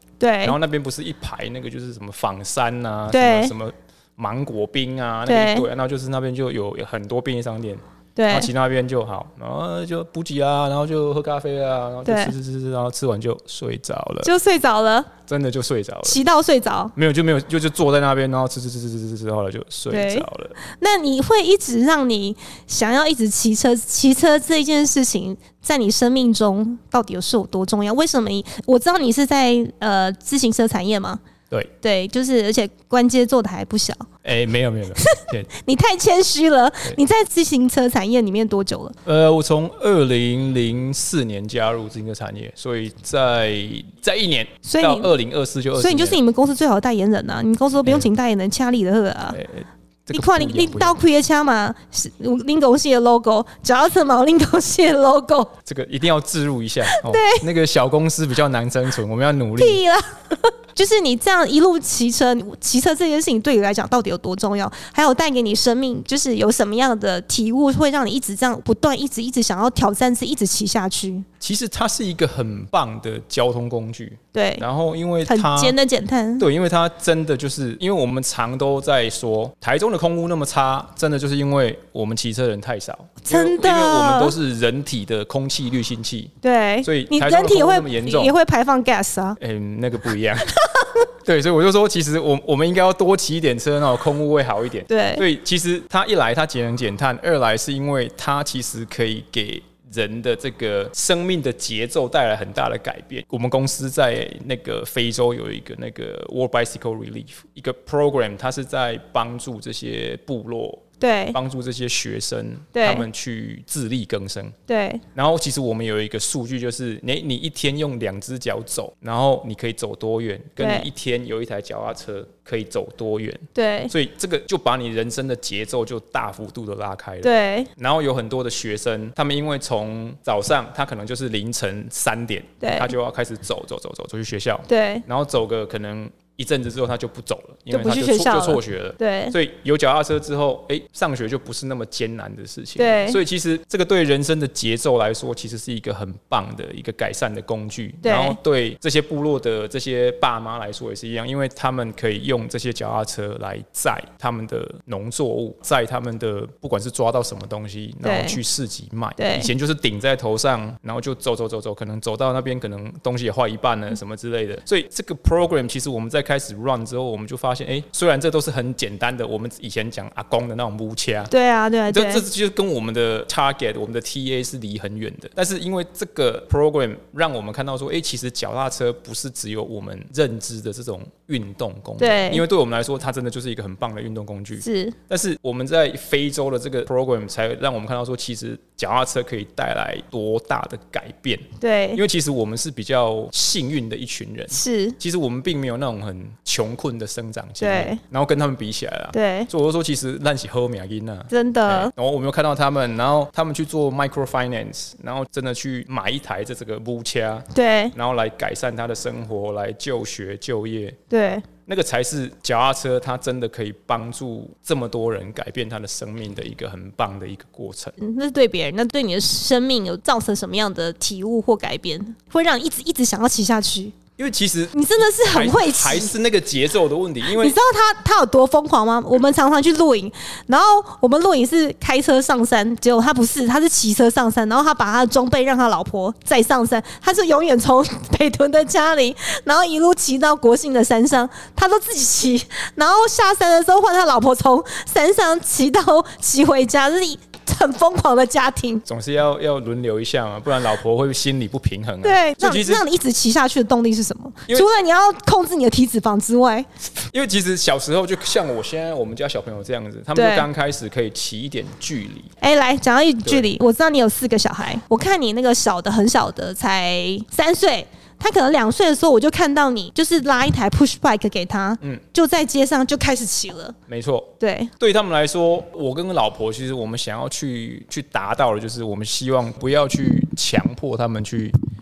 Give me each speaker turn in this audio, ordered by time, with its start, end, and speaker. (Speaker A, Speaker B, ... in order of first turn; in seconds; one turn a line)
Speaker A: 0.2-0.6
Speaker B: 0.4-14.3
Speaker A: 3.1-3.5
Speaker A: 5.3-5.7
Speaker A: 8.2-8.5
Speaker A: 12.1-12.3
Speaker A: 14.2-15.1
Speaker B: 15.3-16.2
Speaker A: 16.1-16.9
Speaker B: 17.0-20.6
Speaker A: 19.9-31.2
Speaker A: 31.8-34.1
Speaker B: 34.2-35.5
Speaker A: 35.0-39.0
Speaker B: 39.1-46.2
Speaker A: 44.6-45.1
Speaker A: 45.8-49.4
Speaker B: 49.3-51.0
Speaker A: 50.1-55.5
Speaker B: 55.7-59.8
Speaker A: 56.9-57.5
Speaker A: 59.6-71.3
Speaker B: 71.4-75.8
Speaker A: 74.3-74.7
Speaker A: 75.3-76.5
Speaker B: 76.4-88.3
Speaker A: 83.2-84.3
Speaker A: 86.4-89.4
Speaker B: 89.4-90.5
Speaker B: 91.2-114.6
Speaker A: 94.9-95.2
Speaker A: 111.0-111.4
Speaker A: 112.7-113.0
Speaker A: 114.7-115.0
Speaker B: 115.2-171.3
Speaker A: 120.6-120.9
Speaker A: 123.5-123.9
Speaker A: 127.2-127.7
Speaker A: 132.6-132.9
Speaker A: 134.7-135.1
Speaker A: 137.7-139.4
Speaker A: 142.8-143.2
Speaker A: 148.0-148.4
Speaker A: 158.0-158.4
Speaker A: 159.2-159.5
Speaker A: 171.3-172.2
Speaker B: 171.9-211.0
Speaker A: 182.0-182.4
Speaker A: 184.6-185.0
Speaker A: 191.6-192.0
Speaker A: 194.5-195.0
Speaker A: 197.6-198.0
Speaker A: 199.1-199.5
Speaker A: 201.3-201.9
Speaker A: 207.5-207.9
Speaker A: 211.1-211.5
Speaker B: 211.7-217.9
Speaker A: 218.0-224.0
Speaker B: 224.2-227.6
Speaker A: 224.7-226.1
Speaker A: 227.3-248.8
Speaker B: 248.8-252.8
Speaker A: 252.0-256.7
Speaker B: 257.1-262.3
Speaker A: 260.1-260.5
Speaker A: 262.4-273.8
Speaker B: 273.9-281.6
Speaker A: 274.4-274.7